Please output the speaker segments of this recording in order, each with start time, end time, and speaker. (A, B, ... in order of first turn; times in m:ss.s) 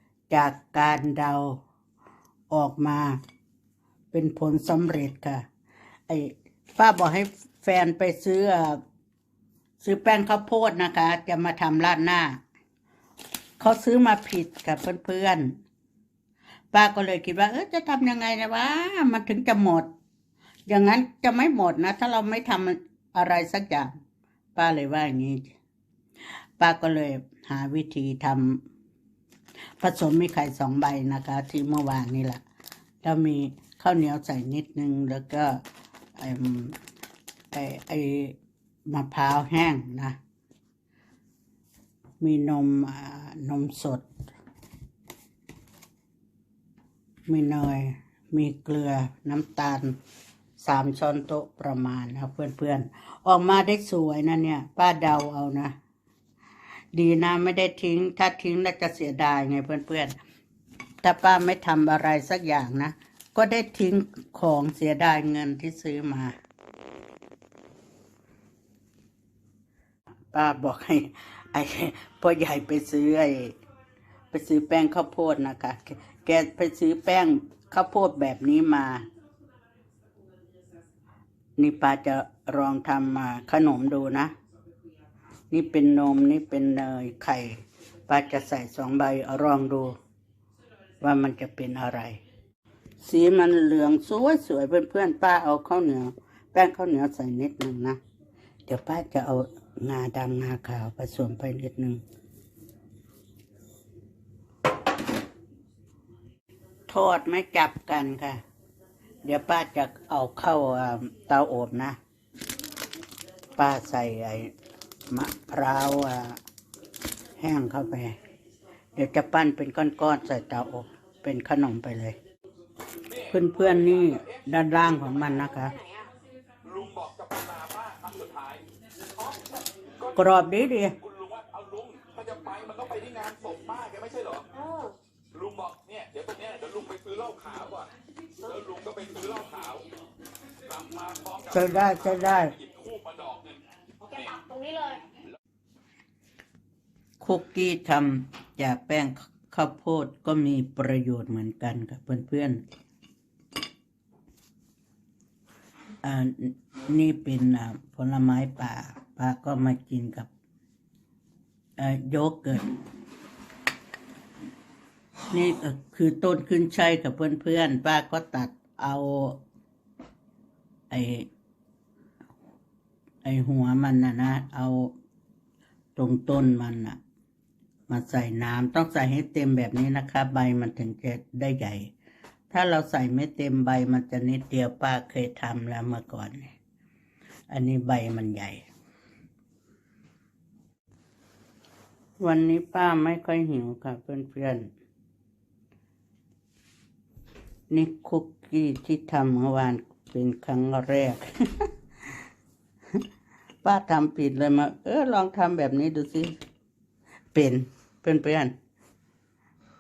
0:00.3-0:01.6 A
0:02.5-0:03.2 A
0:04.1-0:05.5 A
0:06.1-0:08.8 A
0:09.8-0:12.4 A
0:13.6-0:15.6 A
0:16.7-0:19.9 A
0:20.7-0:23.9 A
0:24.6-0:25.6 A
0:26.6-0:28.6 A
0:29.8-0:32.4 A
0:33.0-0:35.6 A
0:36.2-0:36.8 A
0:37.5-0:38.4 A
0:38.9-0:40.2 A
0:42.2-0:44.1 A
0:47.3-0:50.0 A
0:50.6-0:55.8 A
0:56.9-1:00.2 A
1:01.0-1:06.4 A
1:10.3-1:13.6 A
1:14.3-1:19.0 A
1:21.6-1:24.3 A
1:25.5-1:30.0 A
1:31.0-1:32.2 A
1:33.0-1:38.0 A
1:38.7-1:42.0 A
1:46.9-1:48.4 A
1:49.2-1:52.0 A
1:53.6-1:54.5 A
1:55.1-1:56.4 A
1:57.4-1:58.2 A
1:59.0-2:02.2 A
2:03.0-2:04.5 B
2:03.3-2:05.8 A
2:05.6-2:06.1 C
2:06.6-2:08.6 B
2:09.3-2:10.2 B
2:10.2-2:11.0 A
2:11.0-2:14.5 B
2:14.5-2:15.0 C
2:15.3-2:17.9 B
2:18.4-2:19.9 B
2:20.6-2:23.6 B
2:21.5-2:22.5 A
2:24.0-2:25.0 C
2:27.2-2:32.6 A
2:36.0-2:40.3 A
2:41.8-2:42.7 A
2:45.3-2:49.4 A
2:50.9-2:51.3 A
2:53.2-2:55.0 A
2:56.0-2:57.0 A
2:57.9-3:01.9 A
3:02.5-3:06.5 A
3:07.5-3:08.7 A
3:12.2-3:14.7 A
3:17.7-3:21.7 A
3:23.6-3:26.3 A
3:27.3-3:28.6 A